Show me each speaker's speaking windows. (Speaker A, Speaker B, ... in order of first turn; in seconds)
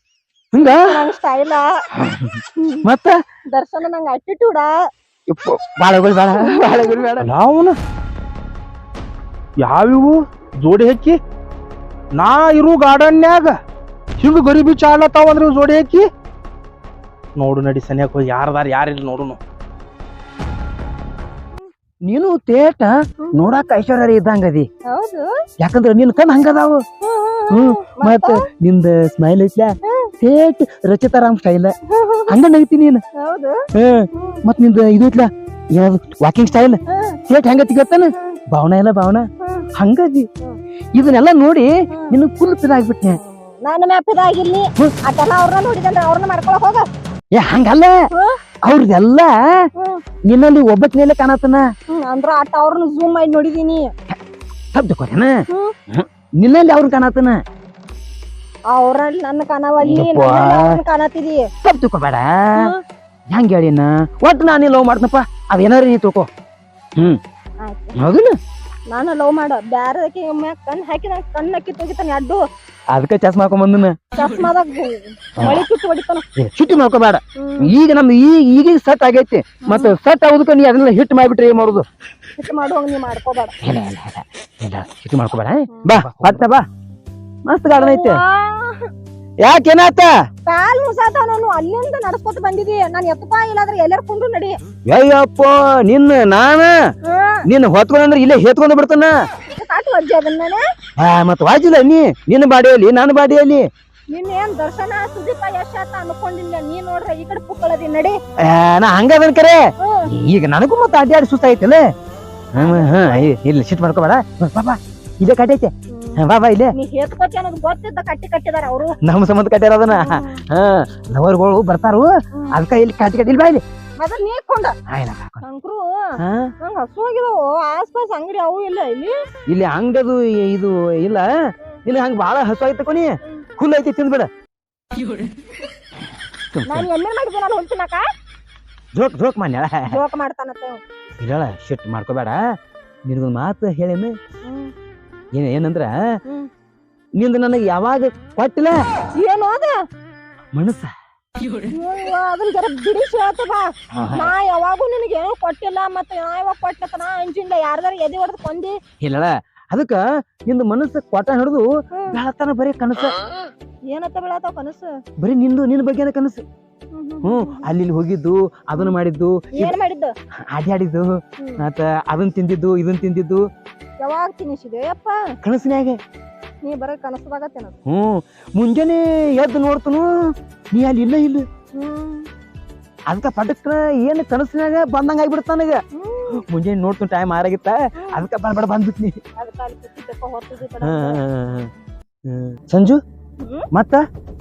Speaker A: 0.5-1.1, 2.0-3.2, 5.3-7.3, 22.1-24.7, 25.6-26.8, 27.5-31.7, 32.3-33.0, 33.8-40.3, 41.0-43.2, 47.3-48.0, 48.6-49.7, 50.3-51.7, 54.7-55.4, 55.9-57.4, 59.8-60.8, 61.6-62.7, 63.3-66.3, 68.0-68.4, 72.9-74.0, 75.4-75.7, 76.4-81.9, 83.6-86.6, 87.5-88.2, 89.4-90.1, 94.9-96.8, 97.5-99.1, 101.0-103.7, 108.4-111.8, 112.5-116.7, 119.0-123.6, 124.9-125.4, 126.2-126.5, 129.5-131.3, 131.9-134.3, 136.5-136.9, 138.9-140.0, 141.2-142.4, 143.1-144.2, 145.3-145.9, 147.2-148.8, 150.5-150.9, 153.9-154.3, 159.0-163.2, 165.2-166.4, 167.2-169.8, 170.5-173.5, 175.4-176.0, 177.9-181.5, 183.1-189.2, 190.8-191.7, 192.2-193.0, 193.7-194.0
Speaker B: 0.8-1.7, 2.6-2.9, 3.5-4.8, 6.3-7.2, 24.9-25.3, 27.0-28.5, 29.8-30.1, 31.9-32.4, 33.1-33.6, 34.1-34.4, 36.9-37.2, 39.4-39.7, 41.9-42.2, 43.1-46.9, 49.8-50.0, 51.9-53.9, 55.5-55.8, 58.7-61.5, 62.5-62.8, 67.6-68.0, 68.9-72.4, 74.2-76.3, 77.4-77.7, 79.7-80.0, 82.4-83.5, 85.7-86.0, 87.8-88.9, 90.5-94.5, 97.0-97.5, 99.5-100.6, 104.1-108.2, 109.8-110.1, 112.5-113.3, 115.9-116.2, 116.7-119.0, 119.9-120.4, 124.0-124.8, 125.4-129.1, 136.7-138.1, 139.9-140.8, 144.4-144.7, 149.2-149.8, 151.7-158.8, 161.9-162.2, 163.9-165.0, 166.9-167.7, 169.5-170.1, 171.4-171.6, 174.0-175.3, 176.6-177.8, 181.7-182.3, 185.9-186.4, 188.0-188.3, 189.4-191.2, 193.4-193.7
Speaker C: 7.2-7.8, 9.6-11.2, 12.2-13.6, 14.2-16.1, 17.4-19.4